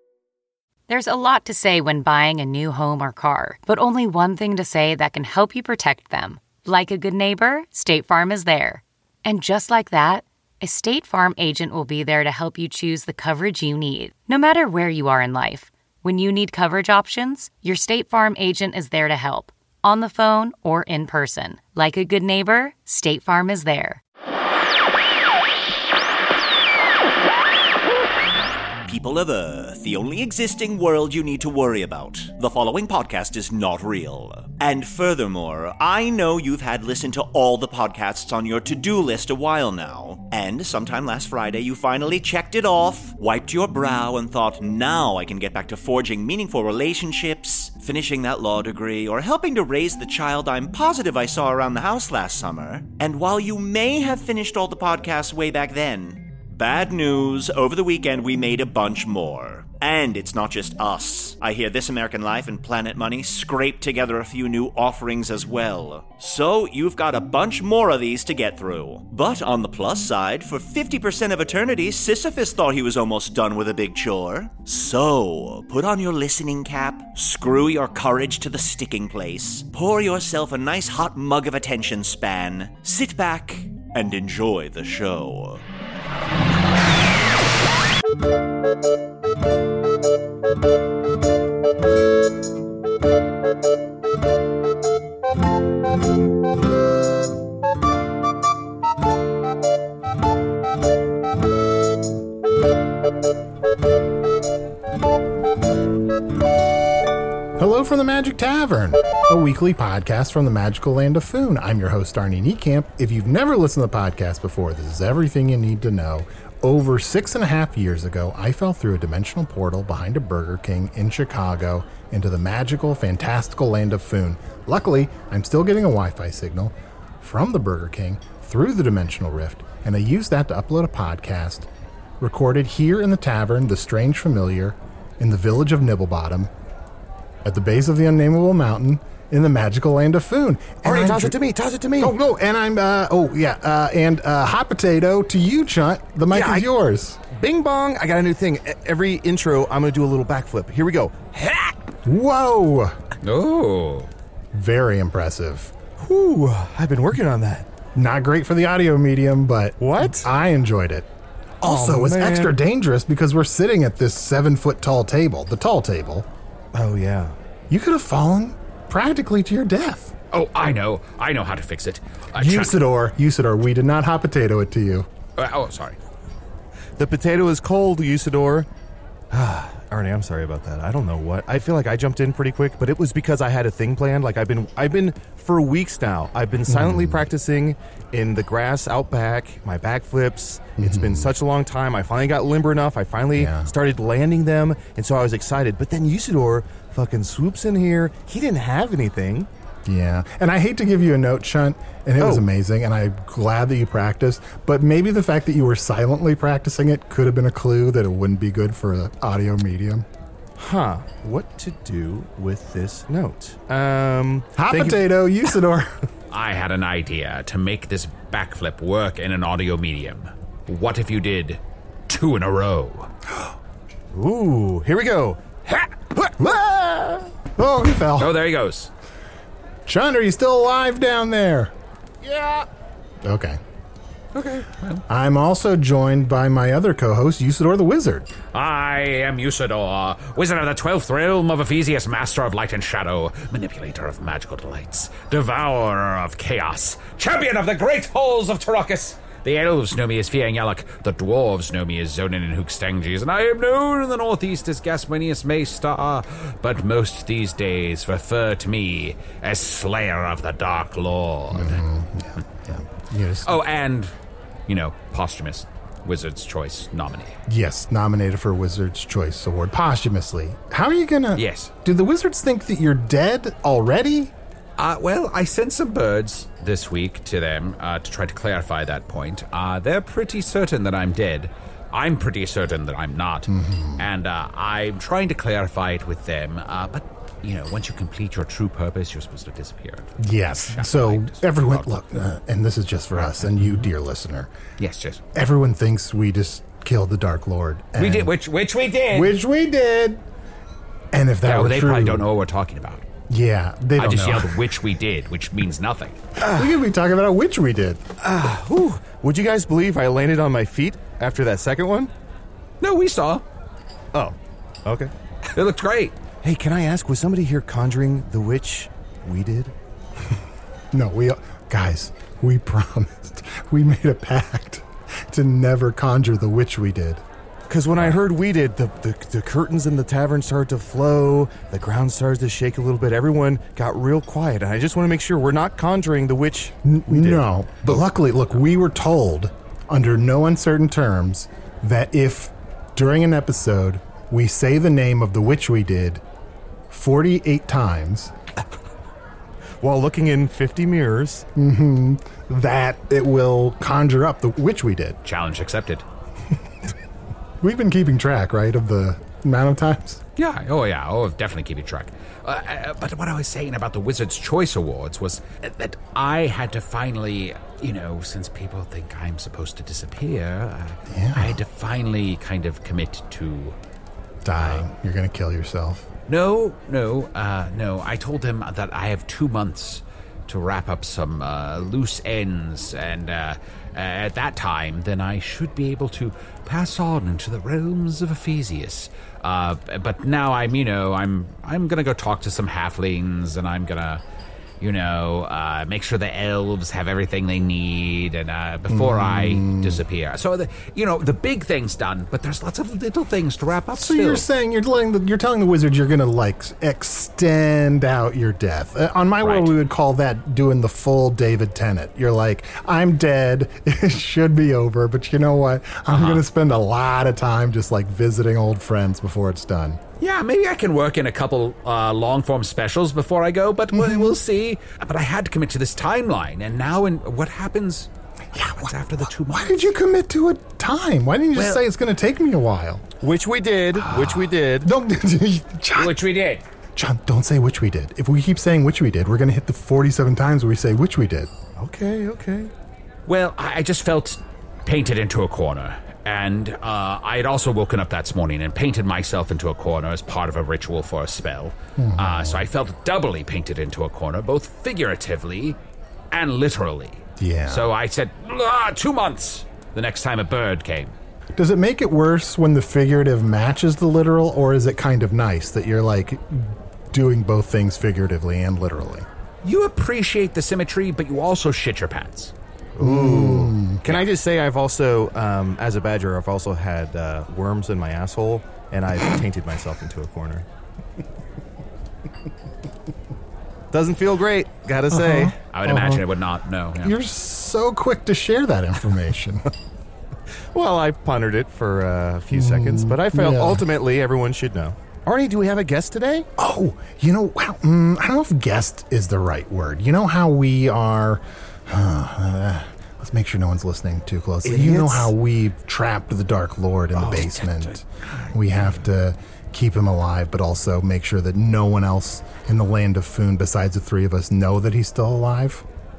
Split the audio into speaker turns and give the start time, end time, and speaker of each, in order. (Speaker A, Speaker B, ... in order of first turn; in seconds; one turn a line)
Speaker A: 0.9-24.0
Speaker B: 28.9-85.6
Speaker C: 107.6-131.7
Speaker C: 132.2-136.5
Speaker C: 137.4-141.4
Speaker D: 140.8-142.1
Speaker C: 142.0-147.2
Speaker D: 146.3-146.7
Speaker D: 147.3-151.8
Speaker C: 152.1-153.0
Speaker E: 153.2-154.1
Speaker C: 154.5-155.7
Speaker D: 156.0-157.7
Speaker C: 157.9-161.1
Speaker D: 159.8-160.3
Speaker C: 161.6-166.3
Speaker D: 161.6-162.6
Speaker D: 166.7-167.3
Speaker C: 167.7-170.2
Speaker E: 170.3-172.8
Speaker C: 172.3-175.1
Speaker E: 175.4-176.0
Speaker D: 177.0-178.7
Speaker D: 179.3-199.5
Speaker C: 186.7-187.3
Speaker C: 190.8-191.3
Speaker C: 193.3-193.7
Speaker C: 199.8-210.1
Speaker D: 202.2-202.4
Speaker D: 210.6-215.0
Speaker C: 214.6-215.9
Speaker E: 216.3-223.1
Speaker D: 224.1-227.3
Speaker C: 227.6-228.4
Speaker E: 228.2-228.9
Speaker C: 229.9-231.7
Speaker D: 232.2-232.7
Speaker C: 233.2-233.6
Speaker E: 234.3-235.0
Speaker C: 235.1-238.3
Speaker E: 238.5-261.8
Speaker C: 261.5-263.6
Speaker E: 263.4-264.1
Speaker E: 264.7-267.4
Speaker C: 267.5-274.3
Speaker E: 271.4-271.7
Speaker E: 274.8-291.9
Speaker C: 283.5-284.1
Speaker C: 290.2-294.5
Speaker E: 293.2-293.9
Speaker E: 294.8-295.2
Speaker C: 295.3-298.3
Speaker E: 298.0-299.4
Speaker C: 299.1-300.2
Speaker C: 301.1-302.3
Speaker E: 301.4-303.1
Speaker C: 303.3-304.7
Speaker E: 304.0-306.2
Speaker D: 306.4-306.8
Speaker C: 306.5-308.0
Speaker D: 308.2-312.1
Speaker E: 312.8-313.4
Speaker D: 314.1-315.1
Speaker E: 315.5-316.1
Speaker D: 316.4-319.7
Speaker C: 320.9-327.2
Speaker D: 327.7-338.0
Speaker C: 336.9-346.2
Speaker C: 346.9-348.3
Speaker D: 349.8-351.5
Speaker C: 351.6-355.2
Speaker E: 355.2-356.0
Speaker C: 357.6-360.2
Speaker E: 360.4-373.8
Speaker C: 371.1-371.6
Speaker C: 374.4-376.1
Speaker E: 374.6-374.8
Speaker E: 376.3-394.2
Speaker E: 394.8-404.4
Speaker C: 398.9-400.0
Speaker C: 403.9-420.0
Speaker E: 409.4-409.7
Speaker E: 416.1-416.4
Speaker E: 420.2-429.9
Speaker C: 423.9-424.4
Speaker C: 428.6-433.0
Speaker E: 431.6-431.8
Speaker D: 433.2-434.9
Speaker E: 433.9-434.5
Speaker C: 434.8-436.2
Speaker E: 436.0-436.6
Speaker C: 437.0-441.5
Speaker D: 441.8-442.7
Speaker E: 443.3-455.8
Speaker C: 452.0-452.7
Speaker E: 456.3-461.1
Speaker C: 457.4-457.9
Speaker C: 461.6-469.3
Speaker E: 469.6-472.5
Speaker D: 473.0-480.7
Speaker C: 473.0-474.0
Speaker D: 483.9-485.5
Speaker C: 485.1-486.2
Speaker E: 485.7-487.2
Speaker C: 487.0-489.6
Speaker D: 490.7-496.5
Speaker C: 492.5-493.9
Speaker C: 496.6-515.8
Speaker D: 504.6-505.3
Speaker E: 507.2-509.0